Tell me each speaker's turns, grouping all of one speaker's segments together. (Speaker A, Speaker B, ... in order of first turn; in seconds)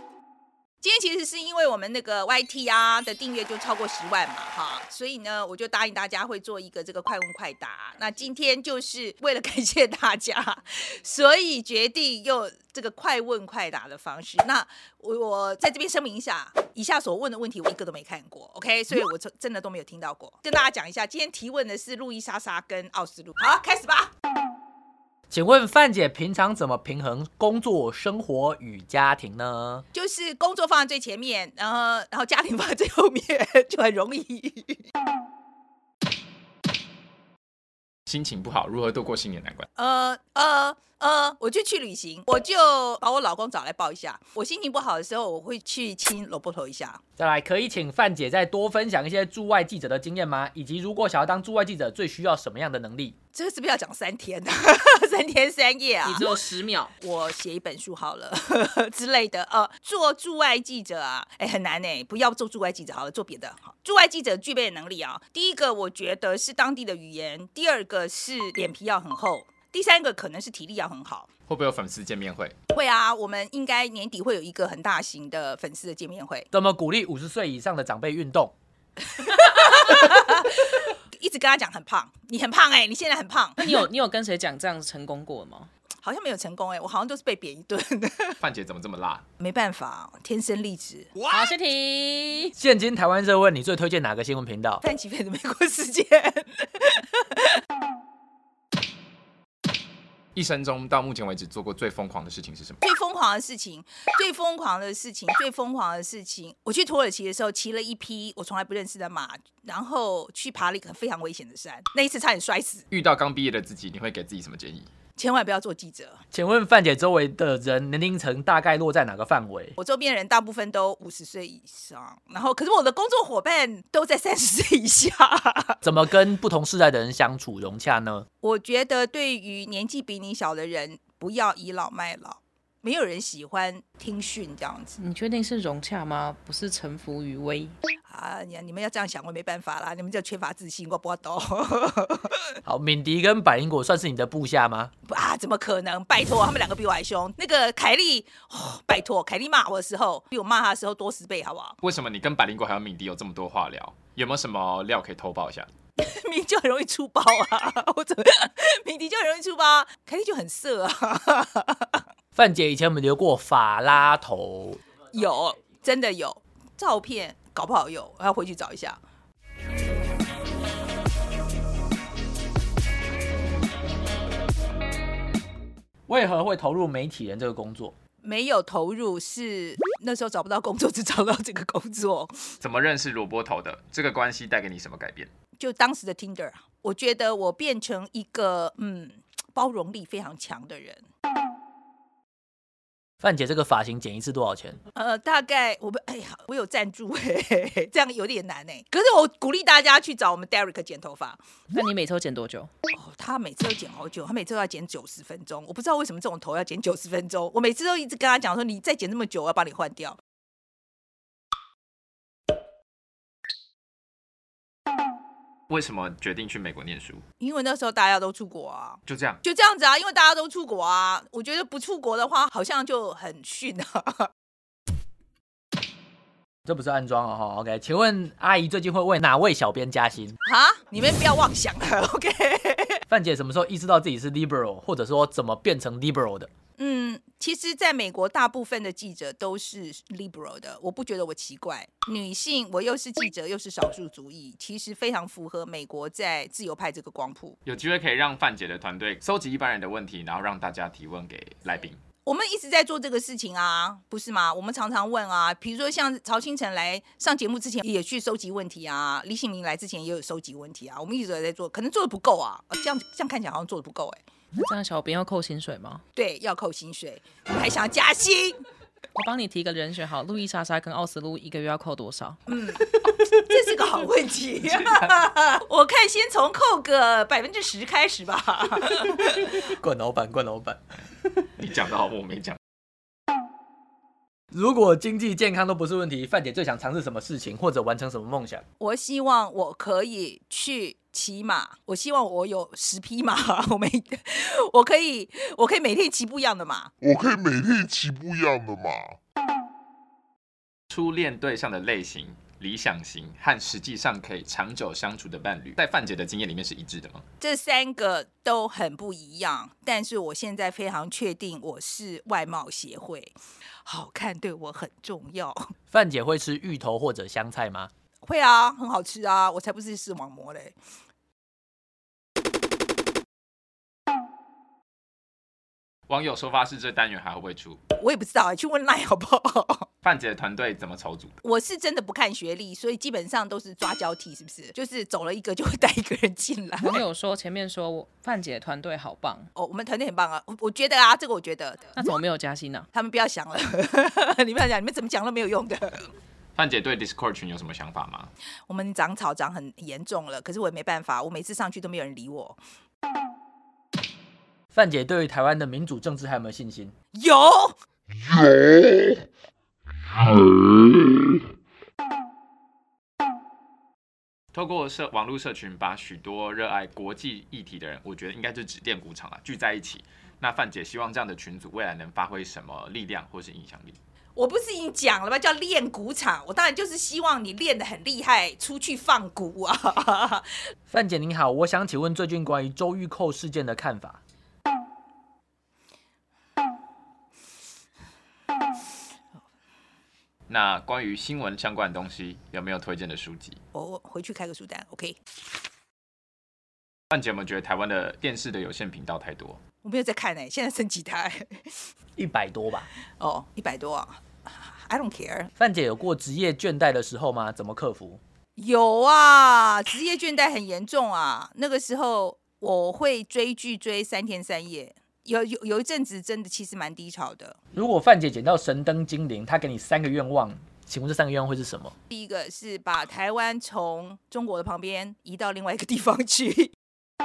Speaker A: 0.8-24.1, 29.9-34.8, 39.7-47.0, 53.3-56.4, 57.0-71.3, 72.7-76.5, 79.2-83.6, 86.0-88.4, 89.4-91.1, 94.8-97.4, 102.8-112.8, 115.2-116.2, 119.8-125.8, 128.4-135.0, 138.1-142.4, 145.0-151.8, 156.0-162.0, 165.1-169.0, 178.2-182.3, 185.6-191.0, 194.9-201.4, 202.9-210.2, 217.4-224.3, 230.4-233.0, 236.8-247.6, 252.2-264.2, 266.1-268.6, 272.5-279.5, 288.8-296.9, 307.4-313.3, 313.9-315.6, 318.2-320.7, 327.9-329.9, 331.4-337.0, 339.5-341.9, 342.9-346.1, 348.7-352.6, 357.1-357.8, 374.4-380.4, 393.7-395.2, 399.8-401.7, 403.2-405.5, 408.6-417.6, 422.1-426.7
Speaker B: 25.3-29.8, 47.2-53.1, 76.5-78.5, 92.6-94.8, 116.3-119.8, 125.8-128.2, 142.7-144.9, 162.3-164.8, 176.1-177.9, 193.2-194.8, 226.7-230.4, 233.1-236.5, 279.6-281.0, 284.5-288.6, 315.9-317.9, 354.7-356.9, 380.9-384.2, 402.1-402.9, 405.6-408.2, 417.7-421.9
Speaker C: 38.1-39.7, 71.5-72.5, 88.4-89.2, 100.3-102.8, 112.9-114.9, 151.8-155.7, 182.6-185.3, 215.7-217.2, 219.1-219.4, 247.6-252.0, 274.6-275.1, 281.6-282.6, 300.9-307.2, 326.1-327.8, 330.0-331.4, 346.5-348.3, 364.5-374.0, 390.5-393.6, 397.1-399.6
Speaker D: 56.0-56.9, 83.6-85.7, 91.3-92.5, 135.0-137.7, 201.7-202.7, 264.6-266.0, 269.1-272.4, 336.8-339.5, 341.9-342.9
Speaker E: 297.0-299.1